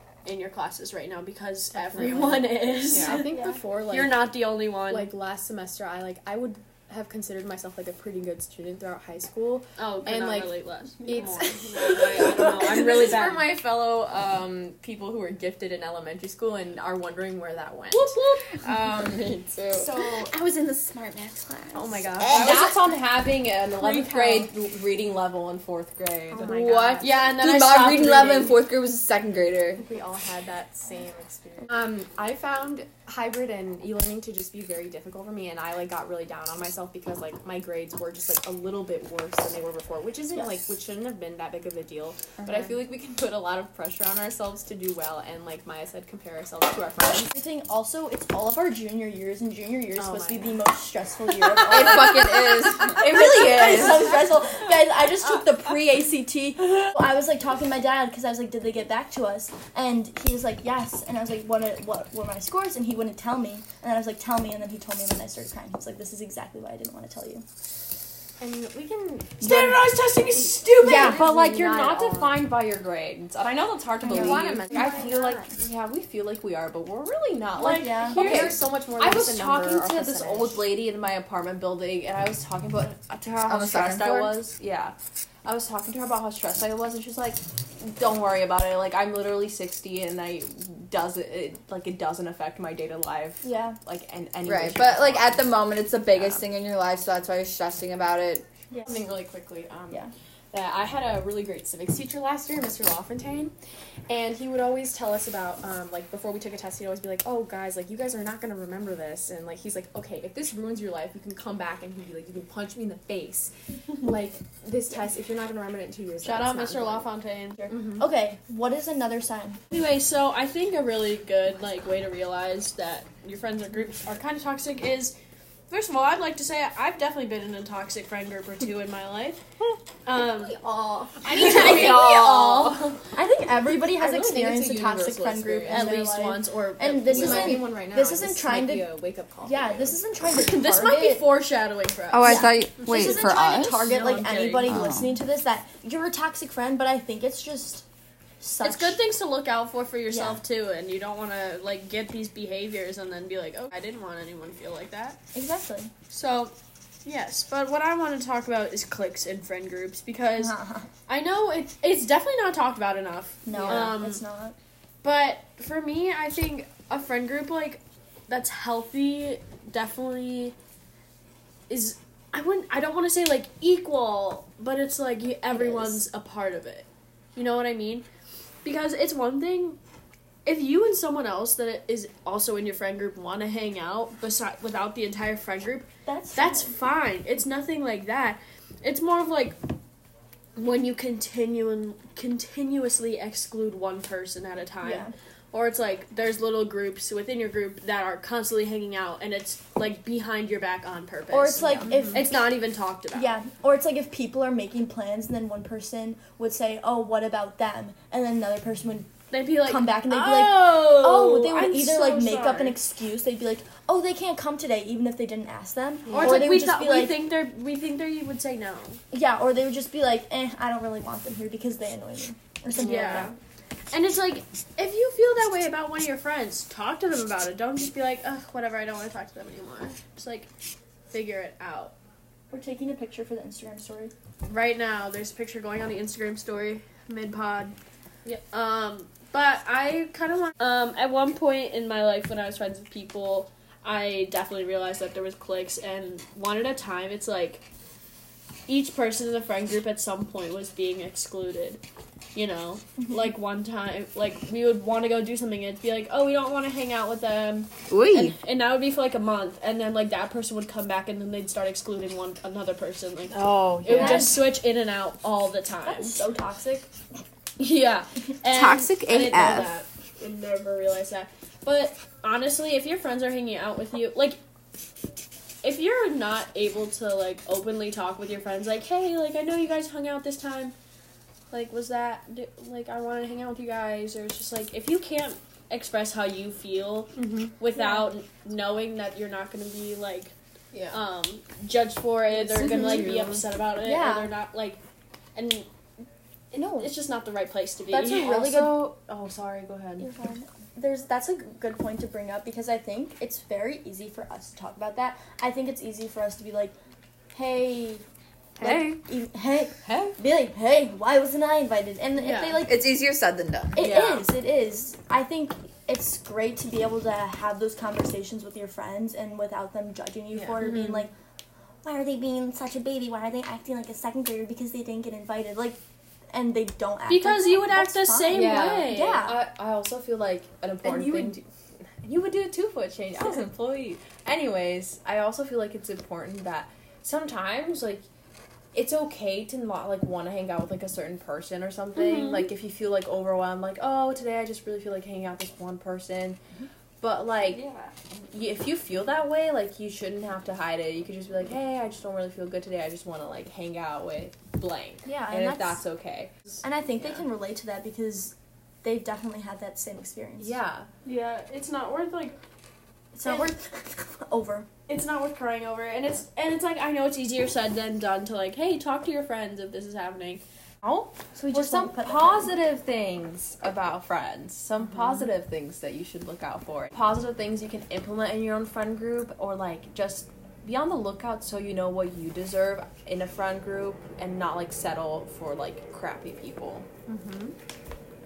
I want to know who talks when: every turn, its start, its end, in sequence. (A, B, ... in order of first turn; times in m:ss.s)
0:00.2-0:03.4 A
0:01.8-0:04.3 B
0:03.0-0:03.6 C
0:03.9-0:05.1 A
0:04.9-0:18.2 B
0:09.8-0:13.5 A
0:12.2-0:13.1 D
0:17.9-0:19.8 D
0:19.0-0:19.9 B
0:19.7-0:22.7 E
0:21.7-0:22.6 B
0:22.3-0:26.6 D
0:24.0-0:24.5 A
0:26.3-0:27.4 B
0:26.4-0:29.8 E
0:27.0-0:28.1 A
0:29.8-0:47.3 B
0:47.3-1:07.4 C
0:50.0-0:50.6 B
0:51.7-0:53.2 E
0:52.8-0:54.5 D
1:08.4-1:09.5 B
1:09.4-1:24.9 D
1:10.2-1:12.5 B
1:10.8-1:11.2 C
1:14.0-1:15.5 B
1:14.0-1:15.0 C
1:17.6-1:18.5 A
1:17.6-1:18.5 C
1:18.0-1:20.6 B
1:23.5-1:24.4 E
1:25.4-1:35.5 D
1:33.4-1:33.8 C
1:34.4-1:38.4 E
1:36.1-1:36.4 D
1:38.7-1:39.0 C
1:38.8-1:43.5 B
1:44.1-1:57.1 B
1:56.2-1:57.7 A
1:57.7-1:58.0 B
1:58.0-1:59.6 C
1:59.7-2:05.2 A
2:05.7-2:09.4 A
2:10.0-2:10.6 A
2:10.4-2:11.9 B
2:11.2-2:13.0 D
2:11.2-2:18.9 C
2:11.3-2:12.0 A
2:14.0-2:16.0 B
2:15.6-2:17.6 A
2:17.1-2:20.0 B
2:19.4-2:21.3 C
2:20.4-2:24.7 A
2:22.1-2:23.9 E
2:22.2-2:27.8 C
2:24.6-2:25.2 E
2:28.4-2:29.0 C
2:28.6-2:35.2 A
2:30.1-2:30.4 C
2:35.3-2:35.9 C
2:36.1-2:36.5 A
2:37.0-2:44.2 A
2:40.4-2:40.9 C
2:43.5-2:44.6 C
2:45.0-2:50.6 A
2:51.7-2:58.0 A
2:55.5-2:56.0 C
2:58.6-2:59.8 A
3:00.4-3:09.6 A
3:06.1-3:06.8 C
3:10.6-3:23.4 A
3:14.8-3:15.1 C
3:21.3-3:22.5 C
3:21.9-3:22.2 B
3:23.1-3:37.2 C
3:29.3-3:32.8 A
3:36.1-3:36.5 B
3:36.1-3:39.0 A
3:39.1-3:43.3 C
3:42.8-3:43.4 A
3:43.9-3:50.5 A
3:51.1-3:52.0 A
3:52.5-3:54.1 C
3:54.5-3:57.8 A
3:58.3-4:07.6 A
4:08.7-4:11.8 A
4:12.3-4:26.2 A
4:17.9-4:18.4 E
4:23.3-4:24.3 E
4:23.5-4:24.1 D
4:23.9-4:24.4 C
4:25.9-4:26.9 C
4:27.6-4:34.4 A
4:28.4-4:29.7 E
4:35.6-4:40.8 A
4:41.5-4:50.3 A
4:47.2-4:47.5 B
4:47.7-4:48.1 C
4:50.7-4:51.0 D
4:50.9-4:54.8 A
4:52.6-4:53.4 B
4:52.6-4:53.0 C
4:52.7-4:53.4 D
4:53.8-4:54.3 C
4:55.4-4:55.7 A
4:56.5-4:58.4 A
4:56.5-4:56.9 C
4:57.9-4:58.9 C
4:58.2-5:00.1 D
5:00.0-5:06.8 C
5:07.3-5:08.0 C
5:08.6-5:13.0 C
5:08.6-5:08.9 D
5:09.8-5:10.2 D
5:12.2-5:12.6 A
5:12.6-5:13.8 E
5:13.8-5:21.1 C
5:13.8-5:14.3 D
5:20.3-5:20.8 D
5:21.8-5:25.8 C
5:26.3-5:29.4 C
5:27.1-5:29.3 A
5:28.3-5:31.4 D
5:30.8-5:31.3 C
5:32.0-5:38.0 D
5:38.7-5:46.4 D
5:47.0-5:47.7 D
5:48.3-5:56.3 D
5:55.0-5:55.8 C
5:56.6-6:00.6 C
6:00.4-6:00.9 D
6:01.0-6:02.4 A
6:03.1-6:04.7 C
6:03.2-6:03.5 A
6:04.9-6:10.4 A
6:10.8-6:26.9 D
6:11.5-6:12.5 C
6:27.1-6:27.6 B